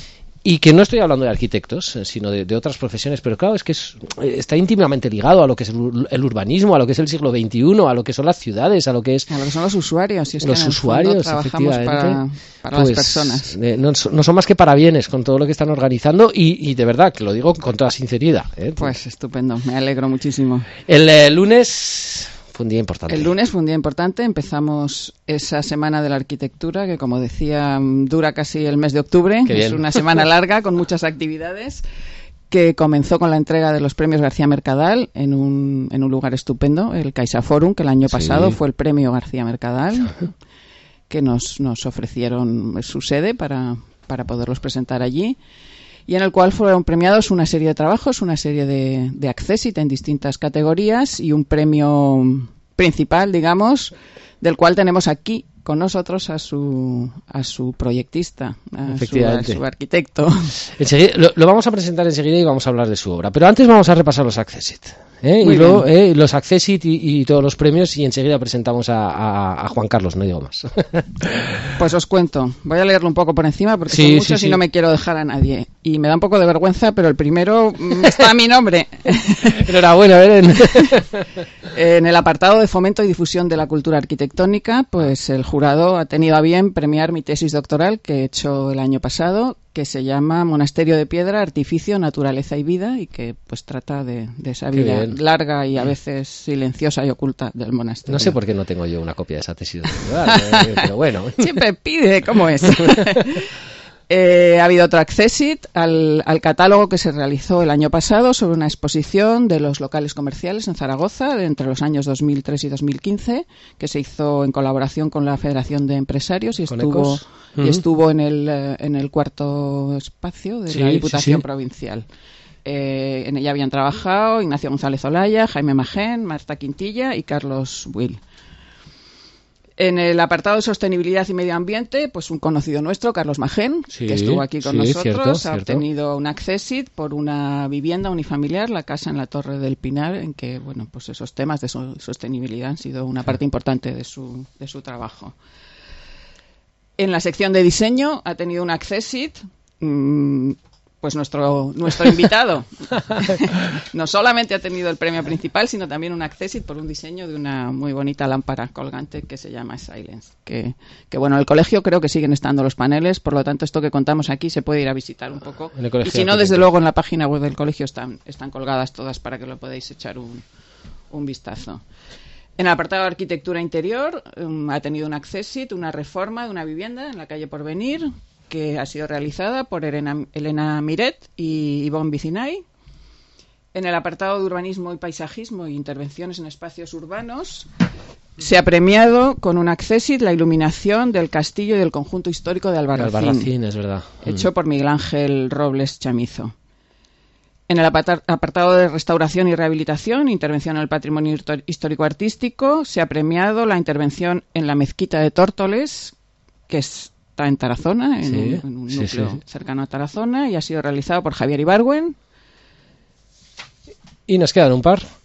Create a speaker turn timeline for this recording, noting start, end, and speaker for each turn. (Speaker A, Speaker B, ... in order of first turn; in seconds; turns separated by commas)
Speaker A: 0.4-9.3, Speaker B: 9.3-13.6, Speaker A: 10.4-12.2, Speaker A: 12.7-18.9, Speaker B: 18.8-20.7, Speaker A: 20.8-23.3, Speaker B: 23.1-31.8, Speaker A: 29.4-30.0, Speaker B: 32.5-40.3, Speaker A: 38.1-38.6, Speaker B: 41.1-45.4, Speaker B: 46.1-60.5, Speaker A: 58.9-59.6, Speaker A: 60.6-71.7, Speaker B: 65.4-65.8, Speaker B: 71.8-79.7, Speaker A: 73.9-74.6, Speaker A: 79.4-81.2, Speaker B: 80.7-80.9, Speaker B: 81.7-98.4, Speaker A: 94.7-95.2, Speaker A: 98.1-101.6, Speaker B: 100.3-103.5, Speaker B: 104.1-122.1, Speaker A: 116.7-117.8, Speaker A: 120.7-121.4, Speaker B: 122.6-128.2, Speaker B: 129.8-145.3, Speaker A: 133.9-135.8, Speaker B: 147.0-170.4, Speaker A: 165.7-166.7, Speaker B: 171.1-171.8, Speaker B: 172.6-182.6, Speaker B: 183.7-187.7, Speaker B: 188.4-193.5, Speaker A: 192.9-194.4, Speaker B: 194.2-196.5, Speaker B: 197.7-206.1, Speaker B: 206.7-212.2, Speaker A: 208.2-209.4, Speaker A: 214.3-215.0